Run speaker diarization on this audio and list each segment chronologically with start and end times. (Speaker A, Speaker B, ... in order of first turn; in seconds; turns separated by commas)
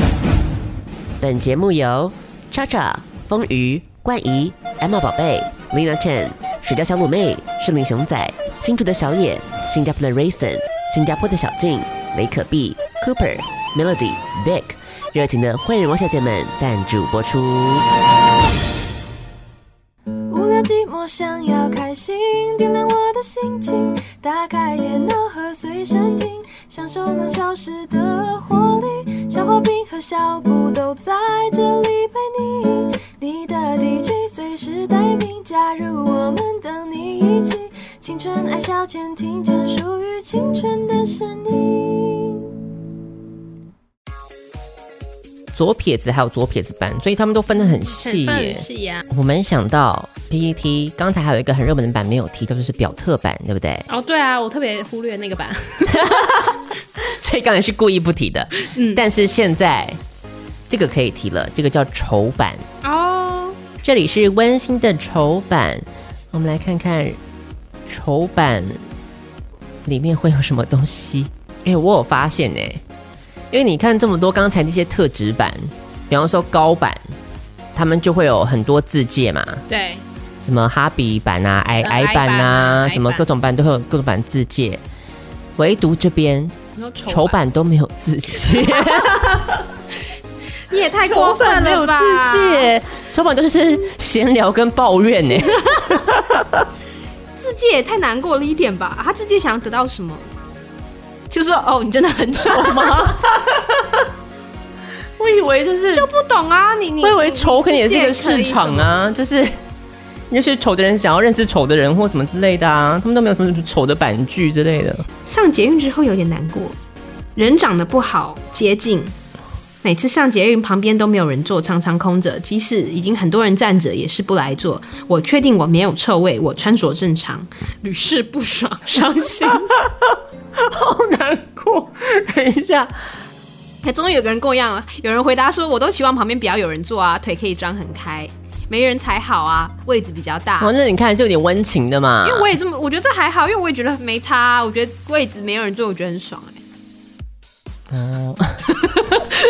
Speaker A: 1.2-17.9, Speaker B: 20.3-42.5, Speaker A: 45.5-53.9, Speaker C: 47.8-49.1, Speaker C: 53.9-56.4, Speaker A: 55.9-60.0, Speaker C: 58.7-59.0, Speaker A: 60.7-62.6, Speaker C: 62.8-63.6, Speaker A: 63.8-67.2, Speaker A: 67.9-68.8, Speaker A: 69.8-72.8, Speaker A: 73.5-77.0, Speaker A: 77.8-79.6, Speaker C: 79.7-80.0, Speaker A: 80.4-84.8, Speaker C: 81.8-83.3, Speaker A: 85.6-89.6, Speaker C: 86.8-87.4, Speaker C: 88.8-89.2, Speaker C: 90.7-92.7, Speaker A: 91.0-96.7, Speaker C: 95.4-96.0, Speaker C: 97.4-100.3, Speaker C: 101.3-103.2, Speaker A: 102.5-104.0, Speaker A: 105.2-106.1, Speaker C: 105.9-109.0, Speaker A: 107.0-109.6, Speaker A: 110.3-115.1, Speaker C: 115.3-116.8, Speaker C: 117.4-119.2, Speaker C: 119.8-129.7, Speaker A: 129.8-132.9, Speaker C: 133.8-140.7, Speaker A: 140.6-142.5, Speaker C: 142.2-146.6, Speaker A: 147.9-148.7, Speaker C: 148.8-149.2